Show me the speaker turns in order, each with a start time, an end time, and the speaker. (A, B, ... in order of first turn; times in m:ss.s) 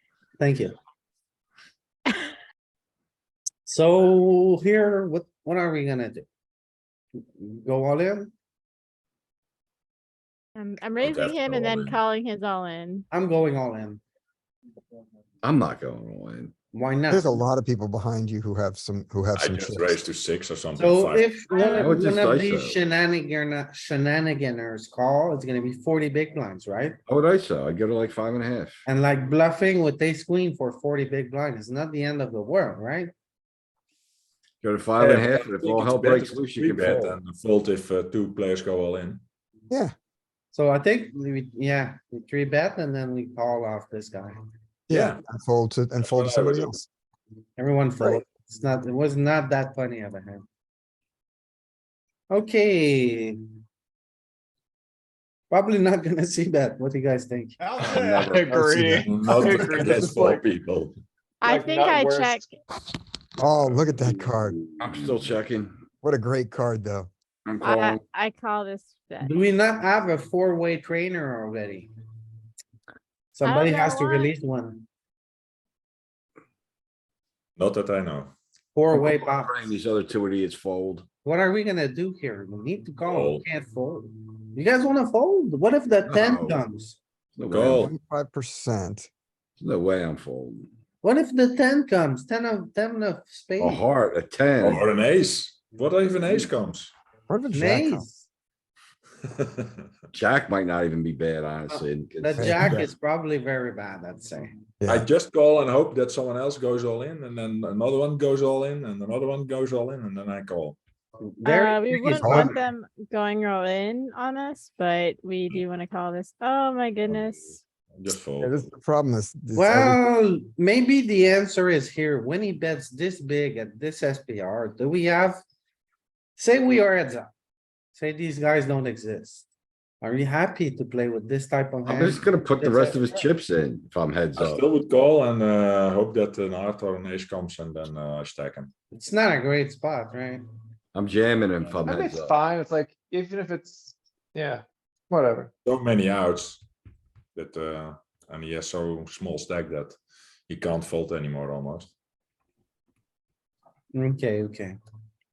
0:00.4-0:00.7 A
0:03.7-0:06.2 A
0:07.4-0:08.3 A
0:10.6-0:13.1 B
0:11.0-0:12.0 C
0:13.1-0:14.0 A
0:15.4-0:16.5 D
0:16.7-0:17.4 A
0:17.1-0:20.0 E
0:19.4-0:21.3 C
0:20.8-0:27.0 A
0:21.5-0:22.0 B
0:21.7-0:22.8 D
0:27.1-0:28.8 D
0:28.9-0:33.1 A
0:34.6-0:37.2 D
0:35.0-0:39.2 C
0:40.5-0:44.4 A
0:44.9-0:46.8 E
0:44.9-0:45.2 C
0:46.0-0:46.8 C
0:47.6-0:50.4 A
0:52.3-0:53.4 A
0:55.5-0:57.6 A
0:57.6-1:00.3 F
0:57.8-0:59.1 D
0:59.0-1:01.0 C
1:01.4-1:02.5 B
1:01.4-1:02.4 F
1:03.4-1:04.6 E
1:04.8-1:05.8 D
1:06.0-1:07.1 E
1:07.5-1:08.0 D
1:07.6-1:09.3 B
1:09.2-1:11.9 A
1:13.3-1:14.8 A
1:13.4-1:14.3 B
1:17.6-1:18.4 C
1:18.8-1:19.7 A
1:18.9-1:21.1 D
1:21.2-1:27.0 A
1:23.0-1:23.4 C
1:26.0-1:26.6 D
1:27.4-1:27.9 D
1:27.5-1:27.9 C
1:27.8-1:29.1 E
1:29.6-1:30.7 D
1:31.0-1:33.8 A
1:33.6-1:34.8 D
1:34.6-1:36.9 C
1:37.3-1:38.1 E
1:37.5-1:38.3 A
1:39.4-1:39.7 C
1:40.1-1:42.8 D
1:41.7-1:44.5 A
1:42.4-1:42.9 E
1:44.8-1:45.1 E
1:44.9-1:50.8 C
1:51.3-1:52.6 A
1:51.4-1:57.6 B
1:52.2-1:52.5 E
1:57.9-1:58.7 C
1:58.4-2:00.1 E
1:59.6-2:05.4 A
2:06.4-2:07.3 A
2:08.0-2:09.5 A
2:10.0-2:13.3 A
2:11.8-2:14.6 D
2:14.4-2:18.7 C
2:18.9-2:20.4 A
2:21.0-2:22.4 D
2:21.8-2:25.5 F
2:25.7-2:26.6 C
2:27.4-2:30.0 C
2:30.5-2:31.9 C
2:33.9-2:34.8 A